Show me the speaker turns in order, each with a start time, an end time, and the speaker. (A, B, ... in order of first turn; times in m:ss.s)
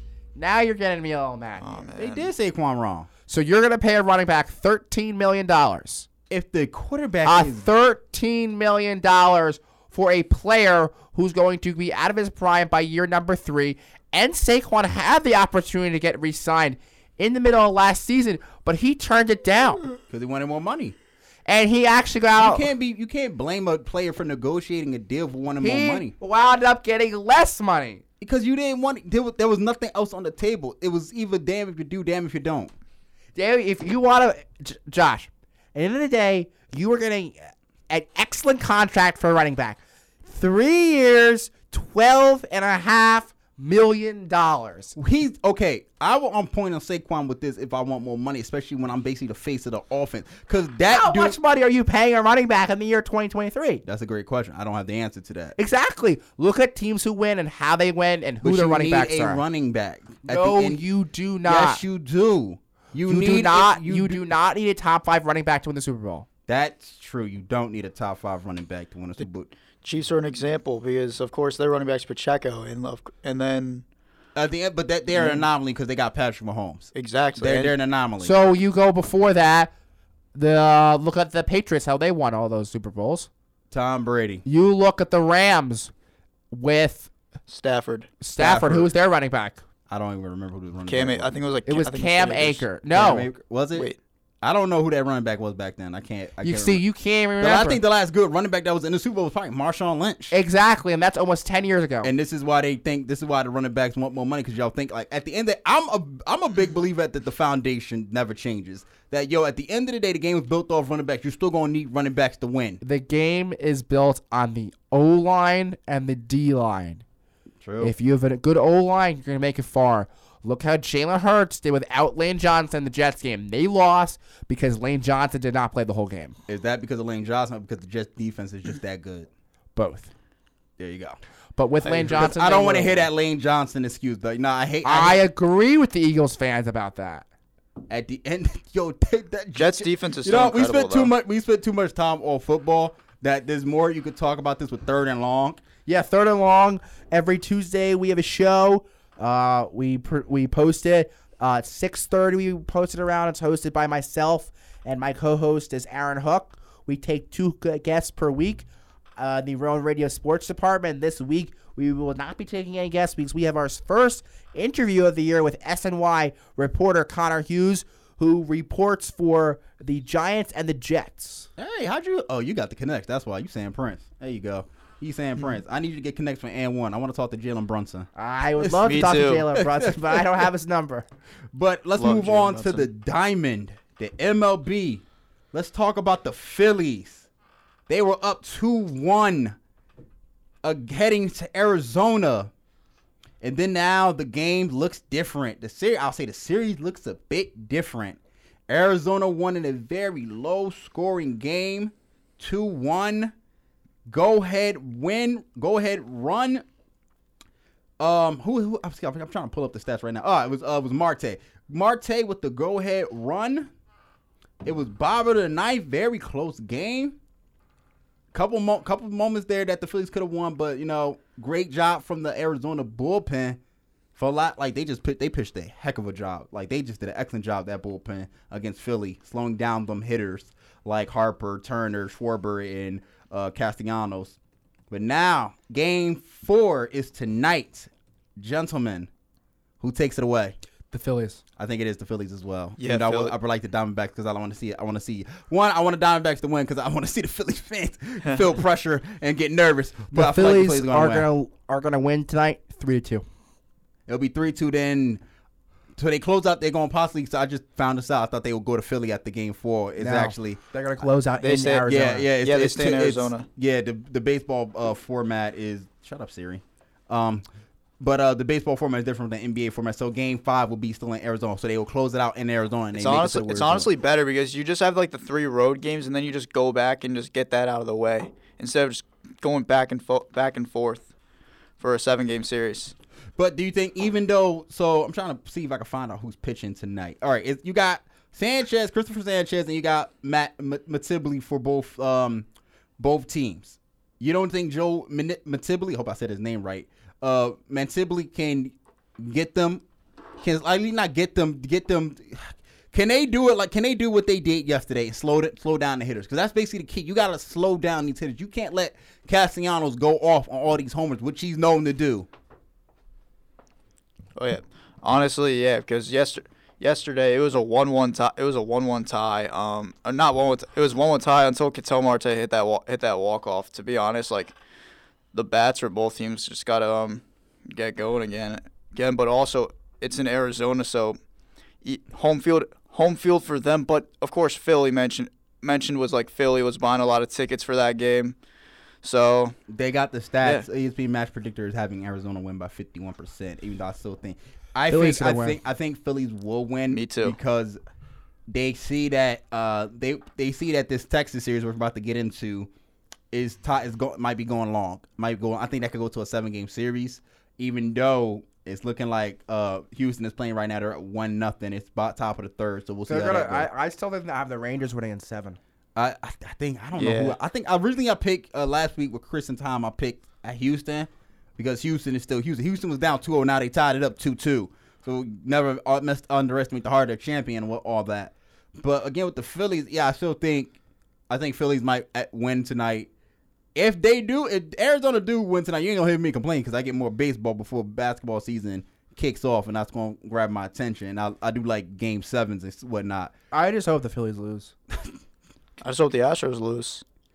0:00.4-0:01.9 A
0:01.6-0:02.3 B
0:02.0-0:03.1 C
0:03.3-0:06.1 A
0:06.3-0:07.7 C
0:07.2-0:19.8 A
0:20.1-0:21.0 C
0:21.5-0:22.7 A
0:22.3-0:26.1 C
0:25.6-0:28.0 A
0:28.2-0:32.7 C
0:33.4-0:45.0 A
0:45.0-0:51.4 C
0:50.9-0:53.8 A
0:53.9-0:55.6 C
0:55.6-0:59.4 A
0:58.4-1:00.8 C
1:00.2-1:01.8 A
1:01.4-1:04.2 C
1:03.1-1:06.3 A
1:06.5-1:09.5 C
1:09.8-1:13.8 B
1:14.4-1:18.3 C
1:16.9-1:17.7 B
1:18.2-1:19.7 A
1:20.3-1:23.3 A
1:23.7-1:24.4 C
1:24.5-1:25.9 A
1:26.5-1:27.1 A
1:27.5-1:28.1 B
1:28.2-1:29.6 A
1:28.4-1:28.9 C
1:29.9-1:31.4 C
1:30.9-1:32.6 B
1:31.7-1:33.3 A
1:32.9-1:33.9 C
1:34.4-1:36.8 C
1:36.4-1:37.8 A
1:37.4-1:40.4 C
1:40.3-1:42.1 A
1:42.0-1:52.8 C
1:52.8-1:57.0 A
1:57.6-1:57.9 C
1:57.8-2:06.4 A
2:06.5-2:09.3 C
2:09.8-2:10.1 A
2:10.8-2:11.2 C
2:11.6-2:13.1 A
2:11.8-2:12.1 B
2:12.1-2:15.2 C
2:14.8-2:17.3 A
2:17.9-2:25.6 C
2:19.6-2:21.1 B
2:25.9-2:38.7 A
2:39.2-2:51.5 A
2:51.6-2:58.1 C
2:58.2-3:01.1 A
2:58.6-3:00.2 C
2:58.8-2:59.4 B
3:01.5-3:07.3 C
3:02.0-3:02.9 B
3:07.9-3:09.6 C
3:10.6-3:12.5 C
3:13.4-3:18.2 C
3:18.7-3:23.3 C
3:24.1-3:26.6 C
3:28.0-3:33.7 C
3:34.6-3:37.2 C
3:38.3-3:43.6 C
3:44.2-3:54.4 C
3:54.9-3:59.1 C
3:59.8-4:00.6 C
4:00.9-4:01.4 A
4:01.6-4:11.3 C
4:02.8-4:03.3 B
4:10.1-4:13.2 A
4:14.1-4:15.2 C
4:16.0-4:20.6 C
4:20.0-4:22.3 A
4:21.4-4:21.9 B
4:21.9-4:27.4 C
4:22.4-4:23.5 B
4:28.0-4:33.9 C
4:32.9-4:41.1 B
4:41.8-4:43.0 B
4:43.4-4:52.5 C
4:53.0-4:59.8 C
5:00.4-5:12.3 C
5:14.4-5:24.6 B
5:25.3-5:31.2 B
5:31.8-5:38.4 B
5:39.0-5:39.6 B
5:39.7-5:47.8 C
5:44.9-5:45.6 A
5:46.9-5:47.4 B
5:48.5-5:52.7 C
5:53.3-6:03.7 C
6:03.1-6:05.6 A
6:06.0-6:20.8 C
6:07.0-6:07.4 B
6:21.3-6:23.1 C
6:23.8-6:33.3 C
6:33.5-6:34.7 A
6:35.8-6:37.0 B